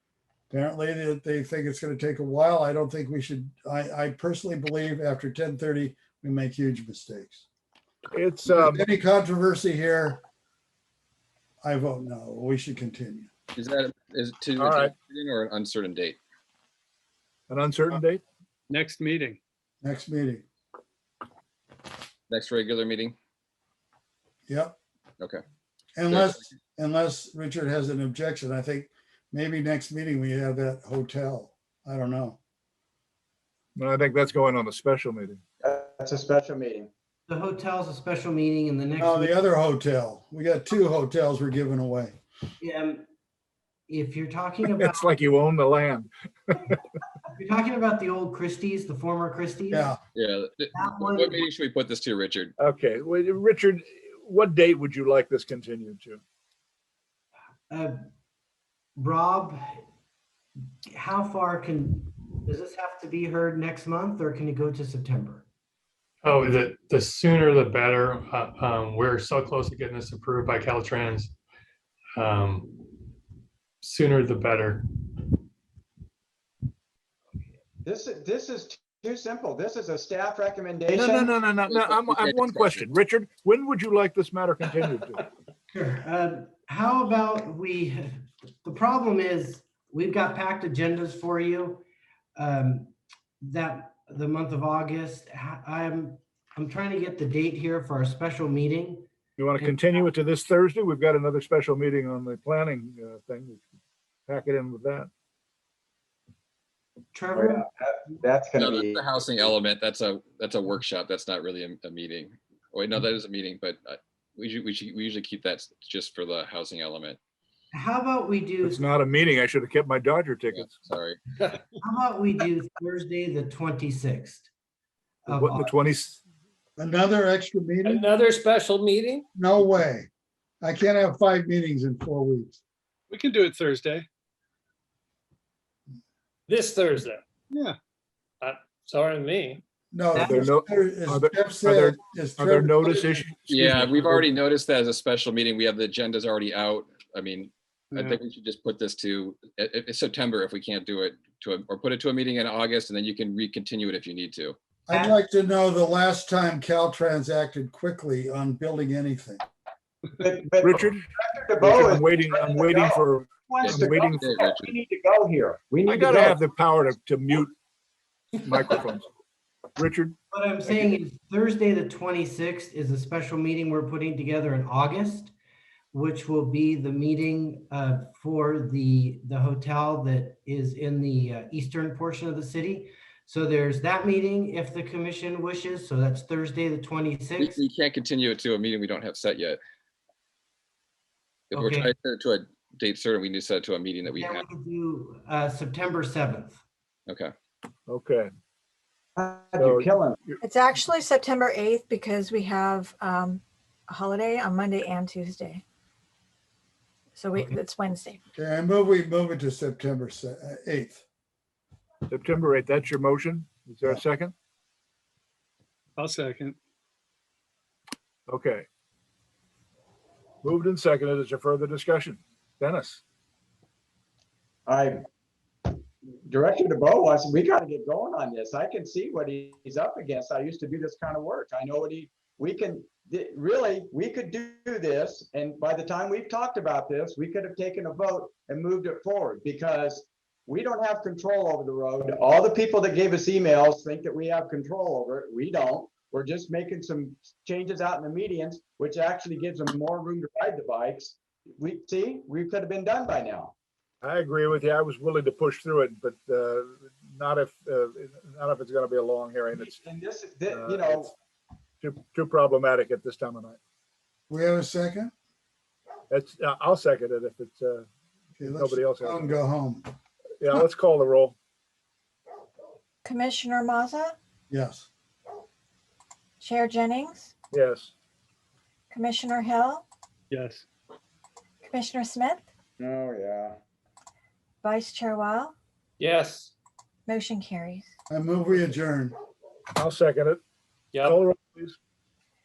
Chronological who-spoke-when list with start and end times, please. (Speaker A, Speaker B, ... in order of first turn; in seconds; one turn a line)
Speaker A: 0.5-7.5
Speaker B: 8.1-8.8
Speaker A: 8.5-10.2
Speaker A: 11.6-13.3
Speaker C: 13.6-16.2
Speaker B: 14.6-14.9
Speaker B: 17.5-18.2
Speaker D: 18.7-19.4
Speaker A: 19.8-20.4
Speaker C: 22.3-23.2
Speaker A: 24.5-24.8
Speaker A: 25.9-32.4
Speaker C: 26.1-26.4
Speaker B: 33.8-35.4
Speaker E: 35.6-36.9
Speaker F: 37.3-39.4
Speaker A: 39.0-42.2
Speaker F: 42.6-43.0
Speaker F: 43.9-45.1
Speaker B: 44.7-46.8
Speaker F: 47.3-49.9
Speaker A: 49.7-50.0
Speaker C: 50.1-52.5
Speaker F: 50.7-51.5
Speaker B: 52.6-56.2
Speaker F: 57.7-58.0
Speaker F: 59.0-59.8
Speaker F: 60.9-65.5
Speaker G: 66.2-71.3
Speaker G: 72.2-73.0
Speaker G: 73.8-74.9
Speaker E: 77.8-81.3
Speaker B: 80.9-85.2
Speaker C: 81.7-82.9
Speaker F: 85.7-91.8
Speaker F: 92.4-99.8
Speaker B: 99.4-103.6
Speaker B: 104.3-105.1
Speaker F: 107.1-107.7
Speaker E: 107.3-109.5
Speaker C: 108.6-117.2
Speaker F: 117.7-118.8
Speaker B: 118.6-120.8
Speaker C: 120.5-121.2
Speaker F: 121.8-124.5
Speaker F: 125.3-125.8
Speaker B: 125.3-126.2
Speaker A: 126.8-128.1
Speaker H: 127.8-129.3
Speaker A: 129.3-130.1
Speaker A: 130.6-132.6
Speaker D: 133.1-134.1
Speaker H: 136.5-137.2
Speaker D: 137.5-137.8
Speaker H: 138.4-139.6
Speaker A: 139.9-143.2
Speaker F: 140.2-140.6
Speaker B: 140.2-144.3
Speaker C: 143.5-154.6
Speaker A: 154.9-159.4
Speaker F: 154.9-155.2
Speaker E: 160.2-166.4
Speaker B: 160.6-161.1
Speaker B: 161.6-164.3
Speaker C: 163.6-164.7
Speaker B: 165.9-167.5
Speaker B: 168.4-169.1
Speaker B: 169.8-170.2
Speaker F: 170.3-175.3
Speaker F: 175.9-187.6
Speaker C: 187.4-189.6
Speaker F: 191.5-191.9
Speaker C: 191.5-194.4
Speaker F: 194.1-196.6
Speaker B: 197.9-198.3
Speaker E: 199.2-200.2
Speaker B: 199.6-200.4
Speaker I: 200.4-205.6
Speaker I: 207.2-208.2
Speaker A: 208.4-211.0
Speaker B: 212.1-214.3
Speaker D: 216.0-216.6
Speaker B: 218.3-218.7
Speaker B: 220.4-223.0
Speaker E: 224.7-225.0
Speaker E: 226.3-253.5
Speaker B: 254.0-259.8
Speaker E: 259.6-261.1
Speaker B: 260.5-261.1
Speaker B: 261.8-263.6
Speaker A: 264.3-265.1
Speaker B: 266.1-267.9
Speaker B: 268.4-269.4
Speaker A: 268.4-269.9
Speaker B: 270.4-271.4
Speaker I: 273.0-274.1
Speaker A: 274.5-274.9
Speaker I: 276.4-277.3
Speaker B: 277.5-277.9
Speaker I: 278.9-279.9
Speaker D: 280.3-280.6
Speaker I: 281.6-282.5
Speaker E: 282.8-283.6
Speaker I: 284.6-285.6
Speaker H: 286.0-286.5
Speaker I: 287.1-287.9
Speaker A: 288.1-289.1
Speaker B: 289.8-290.4
Speaker B: 291.0-291.8